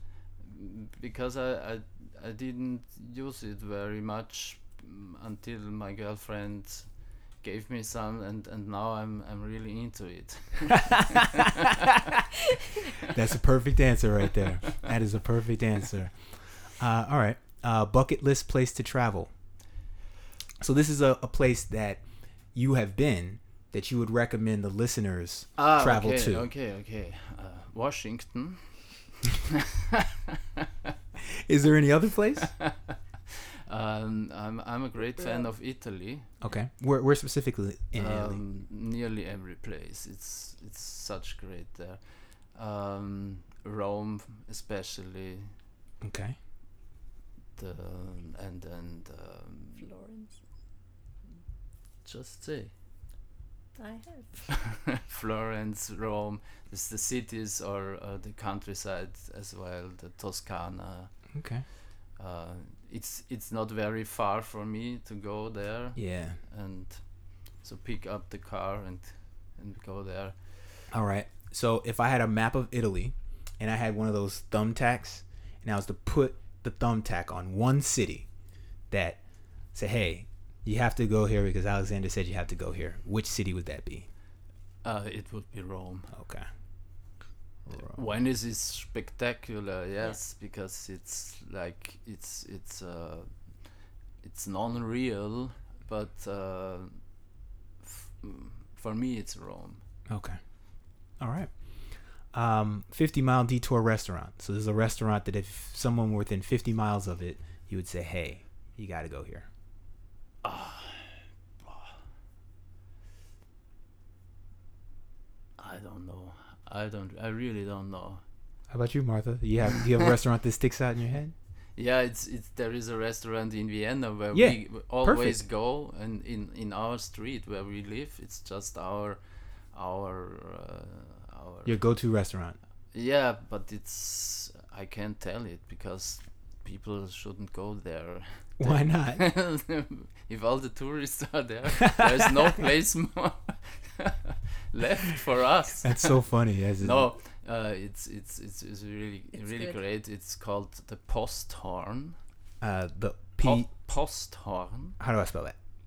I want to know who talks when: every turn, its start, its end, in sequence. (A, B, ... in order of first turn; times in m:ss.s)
0:00.4-0:12.0 A
0:10.9-0:11.4 B
0:13.0-0:19.3 B
0:20.6-0:22.0 B
0:22.5-0:26.5 B
0:25.6-0:30.9 A
0:31.2-0:32.5 B
0:32.4-0:36.3 A
0:35.2-0:35.5 C
0:36.4-0:38.4 B
0:38.0-0:45.6 A
0:46.0-0:46.4 B
0:47.6-0:49.9 A
0:49.8-0:50.4 C
0:52.0-0:52.7 A
0:53.8-0:54.6 C
0:54.5-1:01.1 A
1:01.3-1:01.6 B
1:02.2-1:10.4 A
1:06.0-1:06.4 B
1:10.9-1:18.3 B
1:18.9-1:19.2 B
1:19.7-1:24.1 B
1:24.8-1:26.1 A
1:26.1-1:26.5 B
1:27.7-1:28.0 B
1:27.8-1:33.6 A
1:34.2-1:37.0 A
1:37.8-1:39.8 A
1:40.1-1:40.4 B
1:41.2-1:41.5 B
1:42.3-1:49.5 B
1:50.4-1:52.0 A
1:55.6-1:58.2 A
1:58.7-2:01.3 B
2:01.8-2:09.2 A
2:04.3-2:05.4 B
2:09.7-2:11.8 A
2:11.6-2:12.6 B
2:12.9-2:26.2 A
2:18.6-2:19.2 B
2:25.8-2:27.1 B
2:26.8-2:32.2 A
2:29.4-2:29.8 C
2:32.6-2:33.7 B
2:33.4-2:35.0 A
2:35.0-2:35.6 B